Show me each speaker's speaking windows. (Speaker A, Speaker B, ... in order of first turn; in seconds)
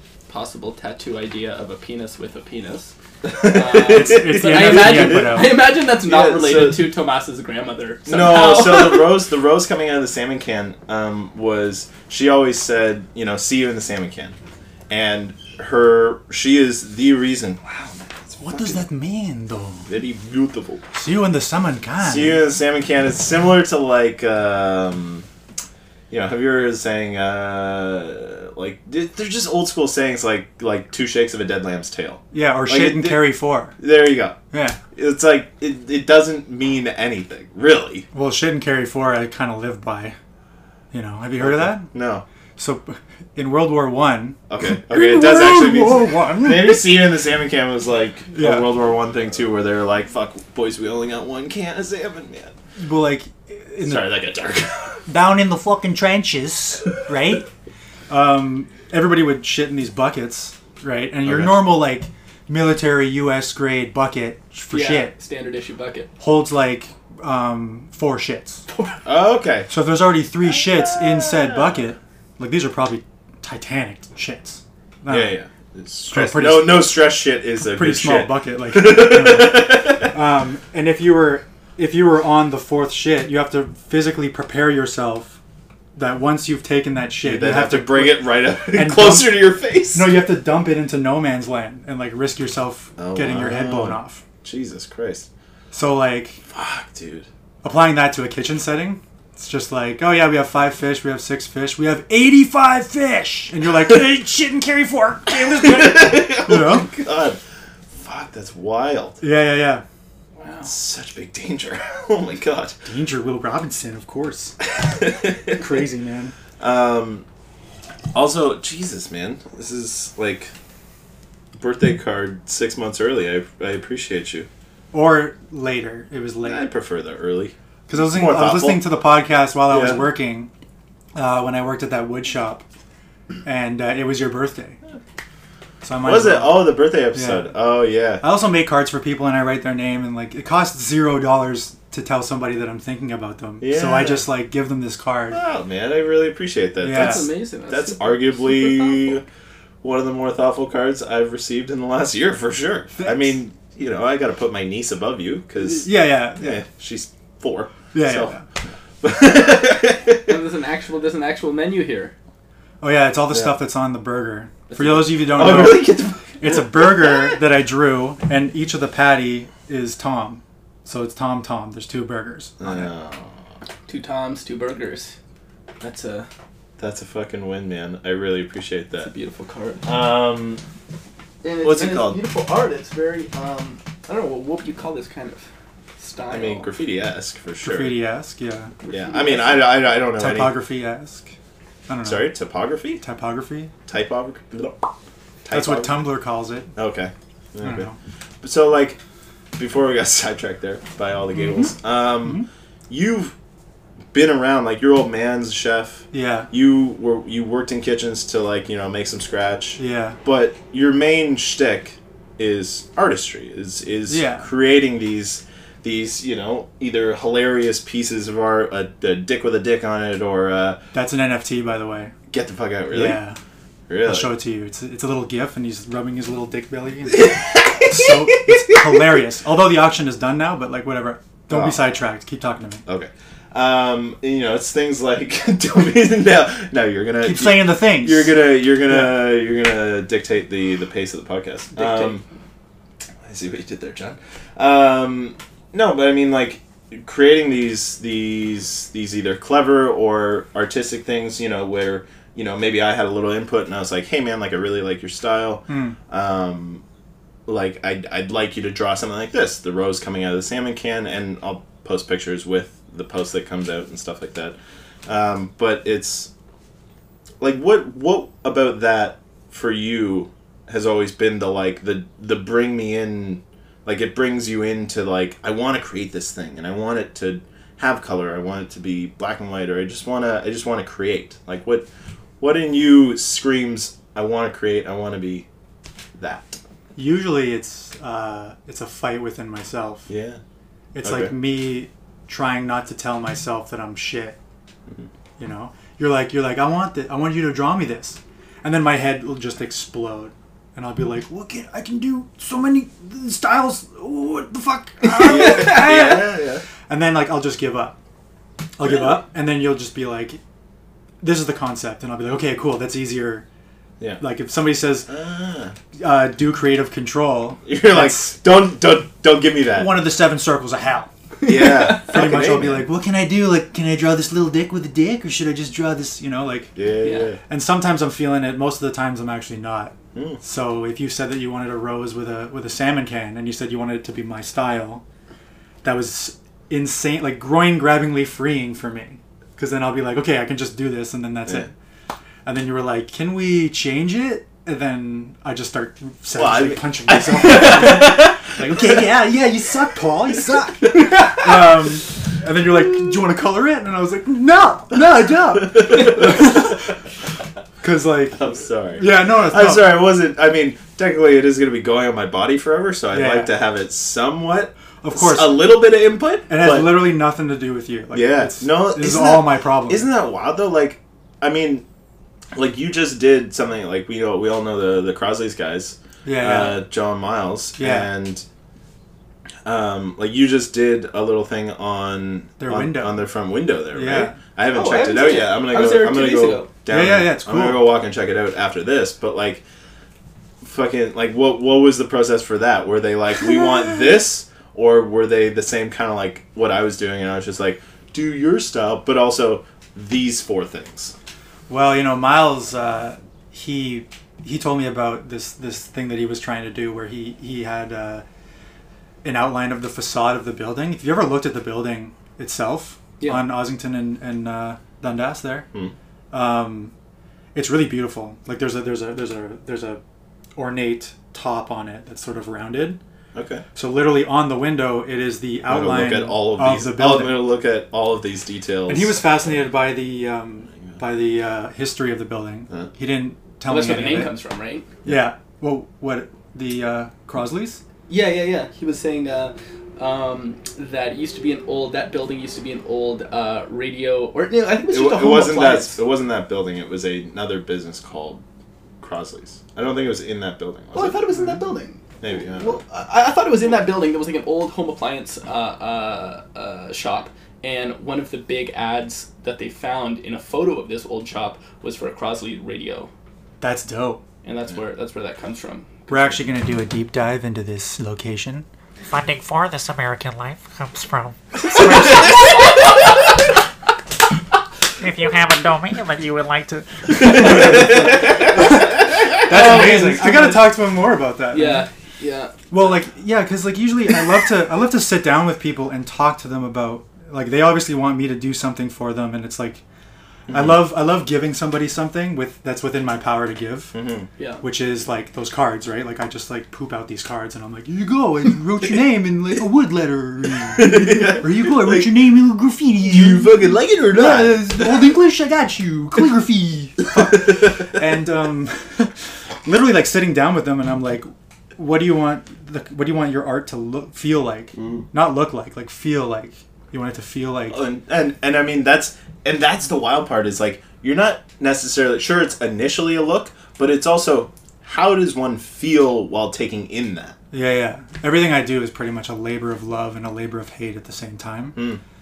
Speaker A: 0.3-9.2, 64.7-66.1, 68.7-69.0, 110.4-110.7, 146.9-149.2, 160.3-162.1, 164.7-165.1, 173.9-175.1, 175.8-176.3, 179.0-179.9, 181.4-185.4, 186.0-186.7, 188.8-189.9, 241.8-242.2, 305.2-306.0, 321.4-322.1, 327.0-327.3, 384.7-386.7, 413.2-413.6, 433.6-434.9, 438.1-446.0, 450.9-463.1, 464.4-466.4, 471.8-473.0, 479.3-480.7, 481.5-482.6, 494.4-494.6
Speaker B: 3.2-6.9, 8.1-14.4, 14.9-18.8, 19.9-20.9, 22.0-25.3, 26.1-34.4, 34.9-38.1, 41.4-42.2, 44.5-52.5, 53.8-55.0, 61.2-61.8, 69.0-69.7, 70.5-71.8, 75.1-80.2, 87.2-90.1, 93.0-95.3, 96.5-97.3, 105.6-107.4, 108.0-109.2, 110.6-112.8, 114.7-115.7, 116.6-117.2, 118.1-120.5, 121.6-124.5, 126.4-128.9, 129.7-130.1, 136.0-138.2, 143.6-144.3, 145.3-149.2, 149.8-158.4, 159.0-160.4, 163.3-163.6, 164.8-167.4, 172.6-173.4, 176.8-179.1, 179.8-180.6, 181.6-182.2, 186.3-187.9, 188.9-190.6, 192.1-193.0, 193.9-194.9, 195.4-196.1, 196.8-197.9, 198.4-199.0, 199.6-203.3, 204.1-220.8, 222.3-223.2, 223.9-224.4, 227.1-227.9, 231.5-231.9, 232.9-242.2, 243.2-256.8, 257.5-266.3, 267.4-281.9, 282.4-285.5, 286.2-286.6, 290.1-290.4, 291.0-291.3, 305.2-306.6, 308.8-309.2, 315.1-315.8, 317.7-320.0, 321.4-322.9, 326.8-327.4, 330.1-330.4, 346.4-349.0, 350.9-351.3, 355.6-356.8, 358.4-367.1, 368.1-371.9, 372.6-378.4, 379.6-389.6, 390.6-401.1, 423.3-423.6, 425.7-429.2, 435.0-435.3, 444.9-448.4, 449.0-451.2, 452.2-452.8, 477.4-478.5, 479.5-480.0, 490.5-490.9, 493.9-494.3, 500.8-502.4, 503.1-505.0, 507.1-507.9, 514.8-515.0, 517.7-527.4, 531.8-532.0
Speaker C: 3.9-5.6, 18.4-19.9, 20.9-22.4, 32.3-33.8, 34.5-34.8, 38.1-40.2, 40.9-41.9, 42.6-46.9, 48.3-48.7, 52.8-54.1, 55.1-57.5, 58.1-65.1, 66.2-68.7, 69.7-75.4, 76.1-77.0, 77.6-85.4, 86.0-94.2, 95.7-96.4, 97.6-106.9, 109.2-109.8, 112.8-114.5, 115.5-116.3, 124.9-126.7, 127.9-130.5, 131.2-132.6, 133.4-134.8, 135.8-137.5, 138.2-145.4, 146.8-147.3, 153.0-153.4, 155.6-156.6, 157.9-158.4, 162.8-172.9, 187.6-188.7, 190.2-191.3, 191.9-192.3, 193.0-193.7, 195.5-196.7, 197.6-198.0, 201.3-202.5, 206.1-206.5, 209.8-210.2, 214.1-214.5, 220.9-222.1, 222.9-223.4, 224.0-227.4, 227.9-232.8, 237.2-239.2, 255.7-256.0, 287.0-290.1, 290.9-294.4, 295.4-306.2, 306.9-308.0, 308.8-310.4, 311.2-313.5, 314.2-315.1, 316.0-318.3, 319.8-321.1, 321.7-326.7, 327.5-335.0, 335.8-341.7, 342.4-356.8, 357.8-360.0, 363.1-363.5, 365.0-365.8, 366.5-370.1, 376.2-376.9, 377.8-378.1, 382.6-383.2, 383.9-384.4, 386.9-387.9, 401.7-408.2, 409.2-415.7, 416.3-416.9, 417.6-420.0, 420.6-423.0, 423.8-427.5, 428.9-434.3, 435.1-437.8, 451.3-451.6, 463.6-464.2, 466.1-468.7, 477.2-481.9, 482.7-489.8, 490.5-494.0, 494.6-517.8, 527.5-531.9
Speaker D: 469.1-472.9, 475.0-477.5